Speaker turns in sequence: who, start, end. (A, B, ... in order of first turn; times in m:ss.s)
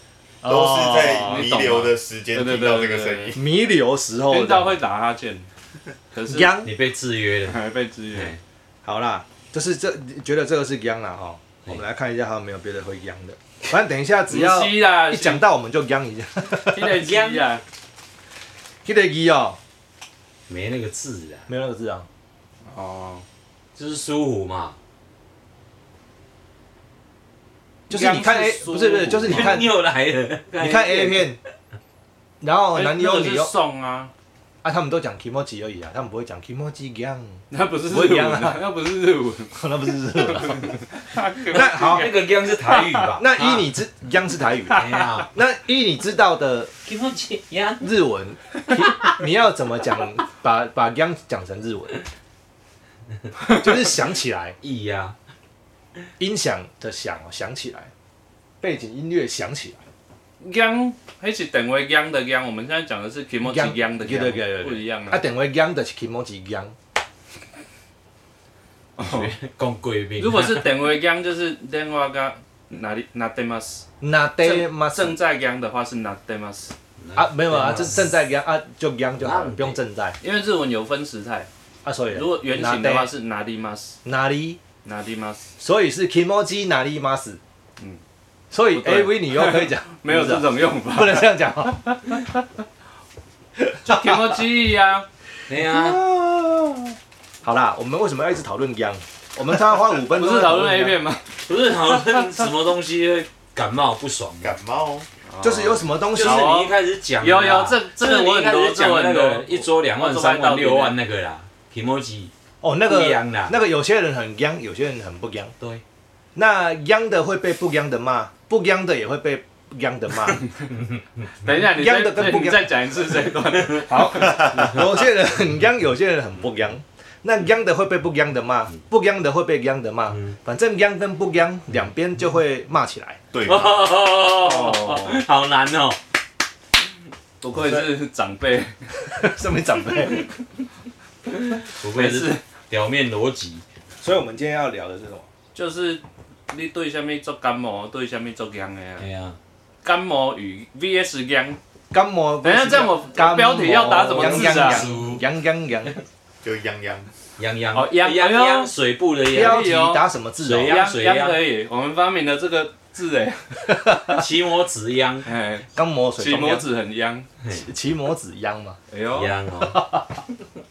0:00.4-0:01.5 A
0:00.4-0:03.4 B
0:01.1-0:03.4 C
0:03.3-0:04.8 A
0:04.3-0:05.5 C
0:06.1-0:06.6 C
0:06.3-0:06.7 A
0:06.6-0:07.6 D
0:07.5-0:08.4 C
0:08.1-0:08.4 D
0:08.8-0:17.0 A
0:14.3-0:15.4 C
0:16.6-0:17.6 C
0:17.0-0:17.6 D
0:18.8-0:19.6 A
0:20.5-0:21.5 D
0:21.5-0:22.1 A
0:22.6-0:23.2 C
0:23.8-0:24.8 D
0:27.9-0:29.6 C
0:27.9-0:29.7 A
0:29.2-0:31.3 D
0:30.6-0:31.4 A
0:32.4-0:33.5 A
0:32.7-0:34.1 C
0:34.6-0:38.6 A
0:37.5-0:39.5 C
0:39.5-0:40.7 A
0:41.0-0:43.1 C
0:41.5-0:42.1 A
0:41.5-0:43.7 D
0:43.2-0:46.7 A
0:44.7-0:45.3 D
0:44.8-0:45.0 C
0:46.8-0:47.9 D
0:47.8-0:52.0 A
0:48.7-0:49.2 D
0:53.5-0:54.6 A
0:54.6-0:55.2 D
0:56.2-0:57.9 A
0:58.6-0:59.8 A
1:00.4-1:05.2 C
1:03.4-1:06.7 A
1:09.0-1:09.3 C
1:09.0-1:10.7 D
1:10.2-1:13.8 C
1:14.0-1:15.2 A
1:14.4-1:16.7 C
1:17.0-1:18.1 D
1:17.2-1:20.2 A
1:19.2-1:19.8 D
1:20.2-1:21.5 C
1:21.8-1:23.1 A
1:22.1-1:24.0 C
1:24.0-1:24.6 A
1:24.8-1:25.5 C
1:25.6-1:27.4 A
1:28.5-1:31.8 A
1:28.7-1:32.3 C
1:33.6-1:34.4 A
1:33.8-1:35.1 C
1:35.5-1:36.0 D
1:35.6-1:41.0 A
1:40.0-1:41.2 C
1:41.4-1:44.6 D
1:41.8-1:42.3 C
1:44.4-1:45.1 B
1:45.3-1:51.0 C
1:45.4-1:46.5 A
1:46.1-1:52.3 D
1:52.6-1:55.5 A
1:52.8-1:53.6 D
1:56.3-2:00.4 A
2:01.4-2:04.5 C
2:01.5-2:02.7 A
2:03.8-2:13.2 A
2:04.4-2:04.7 B
2:13.3-2:13.9 B
2:13.4-2:16.0 D
2:14.3-2:15.2 C
2:17.4-2:18.7 C
2:19.0-2:20.3 A
2:21.6-2:23.6 D
2:21.8-2:22.4 C
2:24.0-2:25.3 A
2:25.5-2:29.0 C
2:29.0-2:29.4 D
2:29.8-2:31.6 C
2:31.9-2:36.0 A
2:32.4-2:34.9 C
2:33.7-2:35.2 D
2:36.4-2:37.1 B
2:37.4-2:39.7 D
2:37.7-2:38.7 C
2:39.3-2:40.8 A
2:39.3-2:40.0 C
2:40.4-2:41.4 D
2:40.6-2:43.6 C
2:43.7-2:44.2 A
2:44.1-2:45.3 D
2:45.2-2:45.6 C
2:45.7-2:46.6 A
2:46.2-2:47.3 C
2:47.5-2:48.8 A
2:48.9-2:49.3 C
2:49.1-2:49.8 D
2:49.6-2:50.2 A